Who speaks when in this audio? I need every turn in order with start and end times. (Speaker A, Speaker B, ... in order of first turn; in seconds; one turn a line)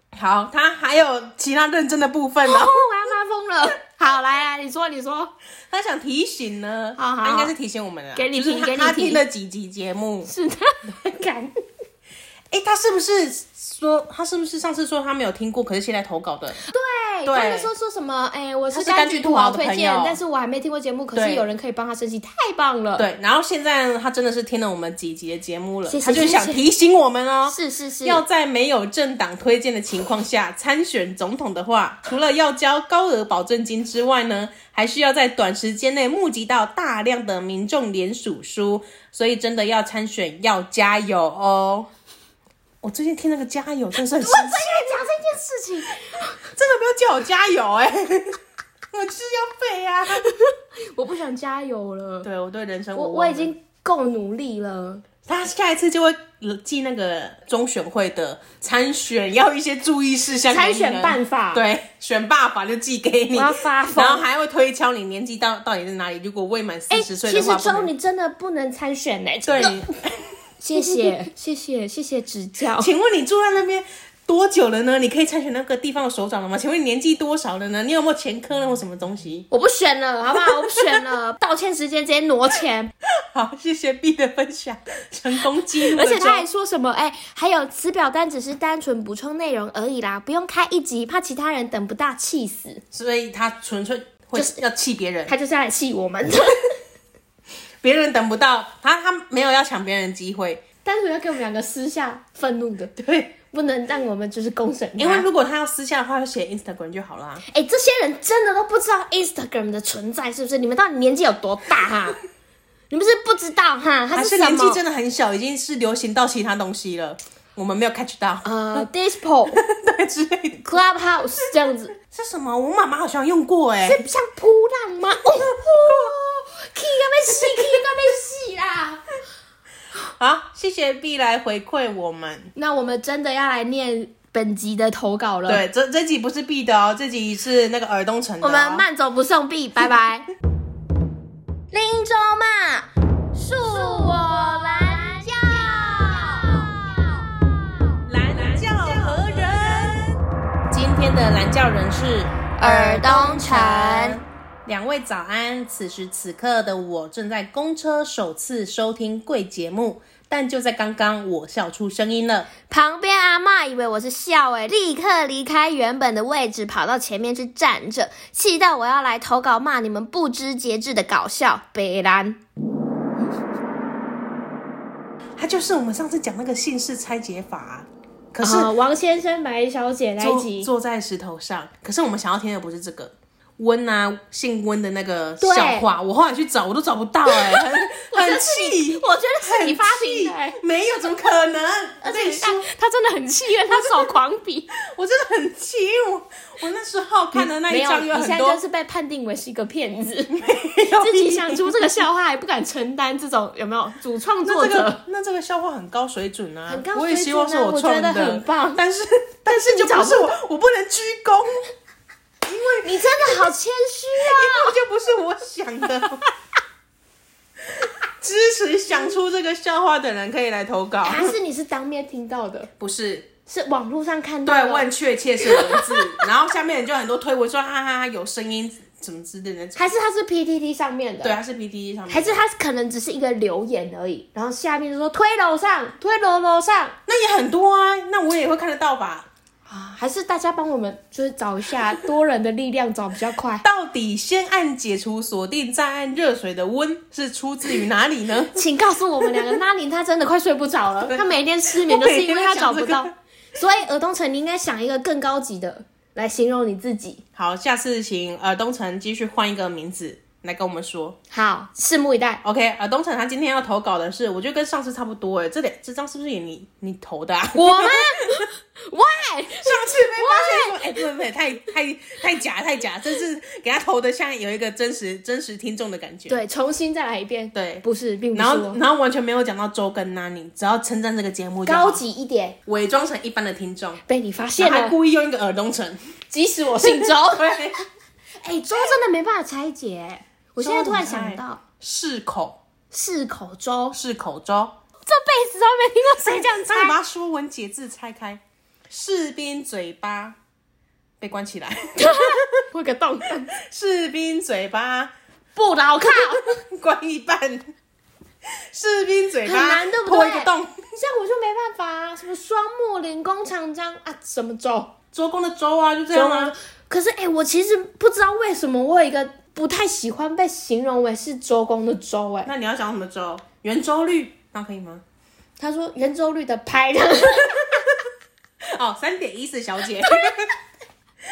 Speaker A: 0.1-2.8
Speaker B: 2.4-5.3
Speaker A: 5.7-10.3
Speaker B: 7.0-7.5
Speaker B: 8.1-9.2
Speaker B: 10.2-11.5
Speaker A: 12.5-16.6
Speaker B: 16.6-23.1
Speaker A: 17.2-17.7
Speaker A: 18.7-20.2
Speaker A: 21.1-21.4
Speaker A: 22.9-41.9
Speaker B: 25.9-26.6
Speaker B: 27.5-28.2
Speaker A: 42.8-44.6
Speaker B: 44.1-46.4
Speaker A: 46.4-48.4
Speaker A: 48.9-50.3
Speaker B: 50.1-52.3
Speaker A: 52.2-53.5
Speaker B: 52.9-55.0
Speaker A: 55.2-67.9
Speaker B: 60.5-61.6
Speaker B: 63.3-64.2
Speaker B: 66.9-69.8
Speaker A: 69.5-70.3
Speaker B: 70.6-72.9
Speaker A: 72.8-79.5
Speaker B: 79.5-82.9
Speaker A: 83.3-86.5
Speaker B: 85.6-92.8
Speaker A: 92.9-95.3
Speaker B: 95.3-96.8
Speaker A: 97.8-100.6
Speaker B: 100.8-105.3
Speaker A: 103.0-103.3
Speaker A: 105.0-107.4
Speaker B: 107.5-112.2
Speaker B: 112.9-114.8
Speaker A: 114.1-118.8
Speaker B: 118.4-119.6
Speaker A: 119.5-120.6
Speaker B: 120.6-121.9
Speaker A: 122.1-124.0
Speaker B: 123.8-129.0
Speaker A: 130.2-132.5
Speaker B: 132.6-135.6
Speaker A: 135.5-138.8
Speaker B: 138.4-140.2
Speaker B: 141.7-149.9
Speaker A: 148.0-150.2
Speaker A: 150.7-162.5
Speaker B: 152.6-154.2
Speaker B: 162.7-172.4
Speaker A: 175.4-178.7
Speaker B: 178.4-180.7
Speaker A: 180.2-192.7
Speaker B: 185.4-185.9
Speaker B: 187.3-190.6
Speaker B: 192.0-194.7
Speaker A: 194.7-198.6
Speaker B: 197.3-200.3
Speaker A: 200.3-201.8
Speaker B: 200.9-205.0
Speaker A: 204.4-211.7
Speaker B: 206.7-208.8
Speaker B: 209.5-210.4
Speaker A: 212.4-213.5
Speaker B: 212.8-214.8
Speaker A: 214.2-216.3
Speaker A: 217.8-221.3
Speaker B: 221.0-222.7
Speaker A: 222.8-223.3
Speaker B: 223.5-224.9
Speaker A: 224.4-229.9
Speaker B: 225.4-226.3
Speaker B: 229.7-231.4
Speaker A: 231.2-232.4
Speaker B: 232.1-236.9
Speaker A: 237.1-239.3
Speaker B: 239.7-243.6
Speaker A: 243.6-248.5
Speaker B: 248.5-257.2
Speaker A: 251.1-253.1
Speaker A: 257.4-261.2
Speaker B: 261.3-262.4
Speaker A: 262.4-268.4
Speaker B: 267.5-271.0
Speaker A: 269.6-276.4
Speaker B: 276.3-278.8
Speaker A: 277.5-282.0
Speaker B: 281.6-282.6
Speaker A: 282.6-284.0
Speaker B: 284.1-284.9
Speaker A: 284.6-286.0
Speaker B: 286.3-287.6
Speaker A: 286.8-287.8
Speaker B: 288.4-291.6
Speaker A: 290.6-292.6
Speaker B: 292.9-294.0
Speaker A: 293.9-294.8
Speaker B: 295.0-297.0
Speaker A: 296.5-300.4
Speaker A: 301.2-302.6
Speaker B: 302.0-303.5
Speaker A: 303.5-305.1
Speaker B: 305.6-306.6
Speaker A: 306.5-307.7
Speaker A: 308.7-310.8
Speaker B: 309.4-314.9
Speaker A: 315.1-316.5
Speaker B: 316.1-322.5
Speaker A: 322.4-325.0
Speaker B: 325.6-327.7
Speaker A: 328.7-330.6
Speaker B: 330.0-330.3